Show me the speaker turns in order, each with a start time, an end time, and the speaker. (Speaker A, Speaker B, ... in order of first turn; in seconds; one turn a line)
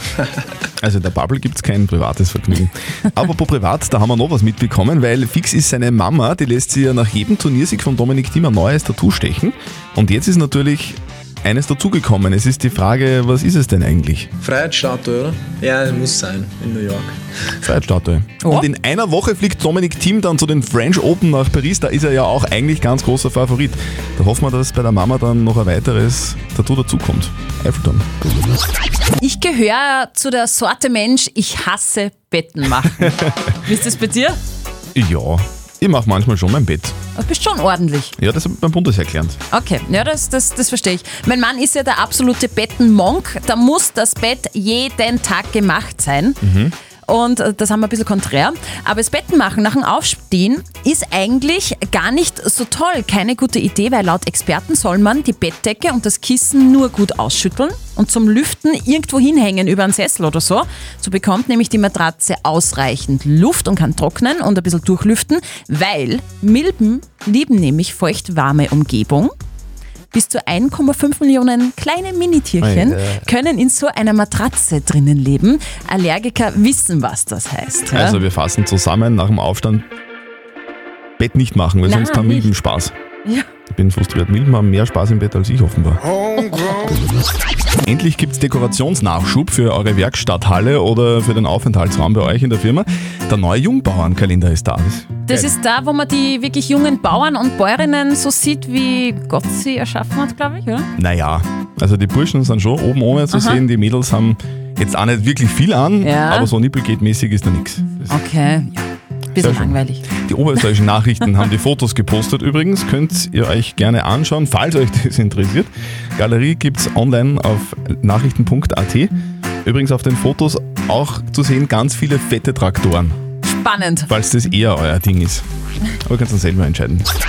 Speaker A: 0.8-14.3
Speaker B: 14.4-17.7
Speaker A: 17.6-28.1
Speaker C: 29.2-34.4
Speaker A: 34.9-36.9
Speaker C: 37.1-38.1
Speaker A: 38.1-39.4
Speaker C: 39.5-46.4
Speaker A: 46.4-46.7
Speaker C: 47.0-69.3
Speaker C: 70.1-78.2
Speaker A: 72.6-73.2
Speaker A: 77.9-79.8
Speaker A: 81.2-82.9
Speaker C: 81.8-82.5
Speaker A: 83.7-86.0
Speaker A: 87.8-95.5
Speaker C: 95.3-100.9
Speaker A: 101.0-108.1
Speaker C: 103.3-103.6
Speaker C: 106.0-106.5
Speaker C: 108.1-110.0
Speaker A: 109.3-119.1
Speaker A: 119.6-123.2
Speaker C: 123.5-124.1
Speaker A: 124.1-125.4
Speaker A: 126.0-127.1